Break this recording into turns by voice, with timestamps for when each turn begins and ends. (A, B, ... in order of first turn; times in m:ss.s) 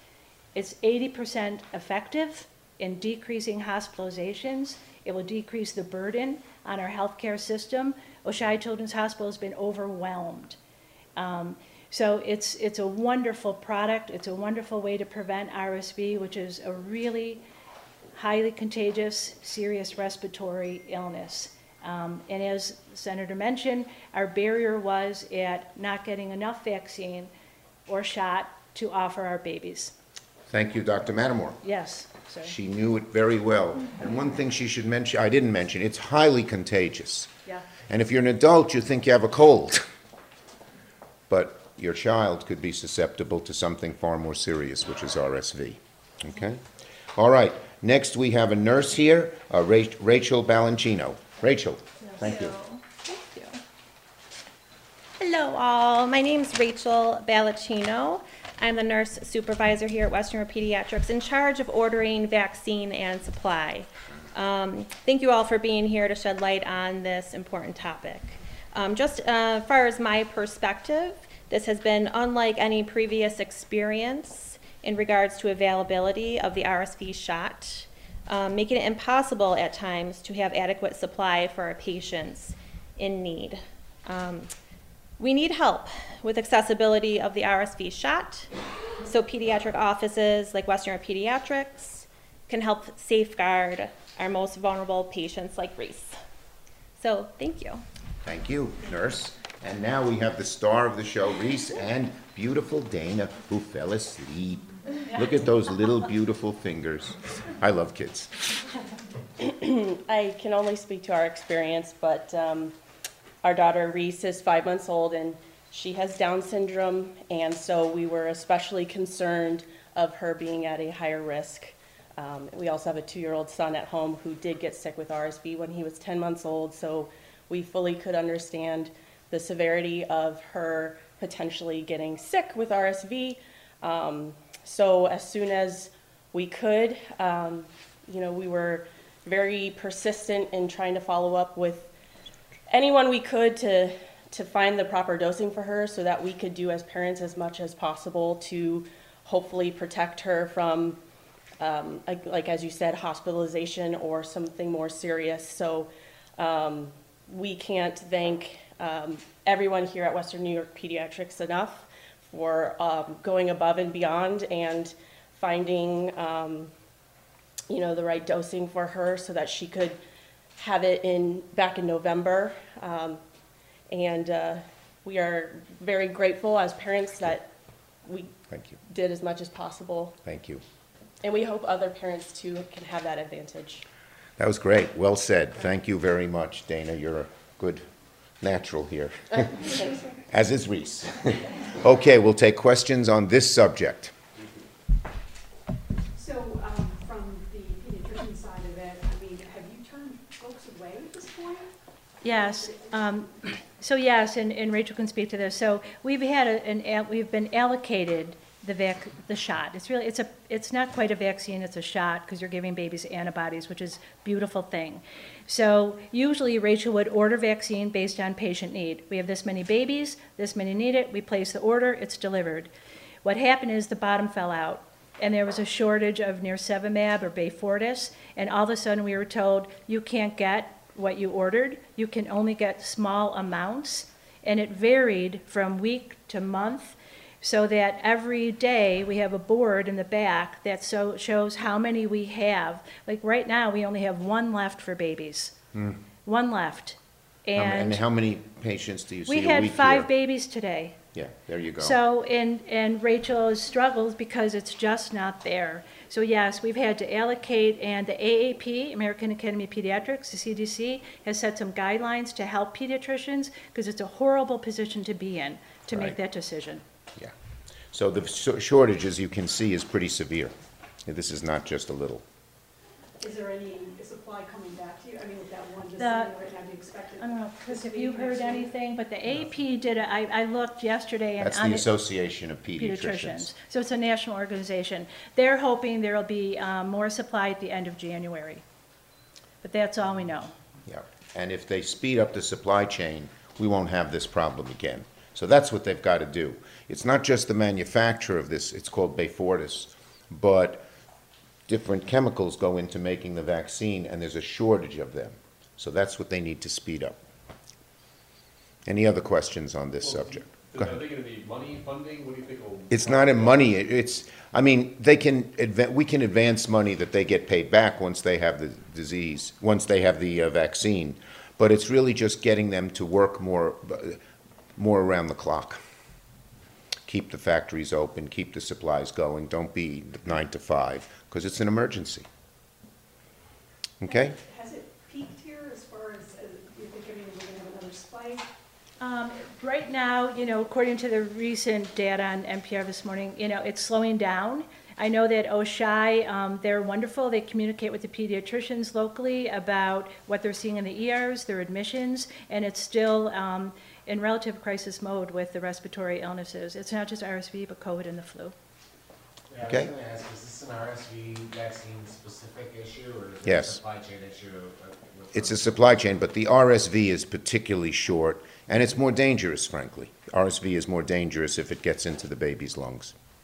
0:00.5-0:10.6 A
0:11.2-0:17.4 A
0:18.2-0:27.3 A
0:27.9-0:29.9 A
0:30.5-0:31.6 B
0:31.6-0:32.5 A
0:32.4-0:37.3 B
0:37.9-0:39.8 B
0:41.3-0:46.6 B
0:47.2-0:52.6 B
0:52.2-0:52.8 A
0:55.2-1:24.5 C
1:25.2-1:28.5 C
1:29.1-1:36.2 C
1:37.0-1:37.8 C
1:38.2-1:48.3 B
1:49.4-1:52.8 D
1:53.4-2:21.9 D
2:22.7-2:31.0 D
2:31.6-2:46.7 D
2:47.7-2:50.0 D
2:50.6-2:53.2 D
2:53.9-2:57.5 D
2:58.0-2:58.3 D
2:58.5-2:58.8 B
2:58.8-3:00.2 D
3:00.2-3:00.6 B
3:01.2-3:03.8 D
3:04.4-3:07.8 B
3:08.4-3:14.1 B
3:09.7-3:09.9 D
3:16.2-3:21.7 E
3:22.2-3:42.7 A
3:22.3-3:22.9 E
3:43.2-4:05.6 A
4:06.2-4:08.0 A
4:07.6-4:10.1 B
4:09.3-4:11.0 A
4:11.2-4:12.0 B
4:11.8-4:26.8 A
4:25.9-4:26.2 B
4:27.9-4:30.5 B
4:31.1-4:32.2 B
4:33.2-4:38.7 E
4:36.0-4:36.4 A
4:37.2-4:41.9 A
4:41.4-4:43.5 B
4:42.8-4:48.6 A
4:49.6-4:50.5 A
4:50.9-5:00.9 B
5:01.7-5:07.2 B
5:08.9-5:11.0 B
5:10.0-5:13.6 F
5:12.9-5:24.2 B
5:24.8-5:25.8 B
5:27.1-5:32.3 B
5:34.0-5:34.4 B
5:34.1-5:38.5 E
5:39.0-5:58.6 A
5:59.5-6:05.7 G
5:59.6-5:59.9 B
6:03.4-6:03.8 B
6:05.3-6:13.1 B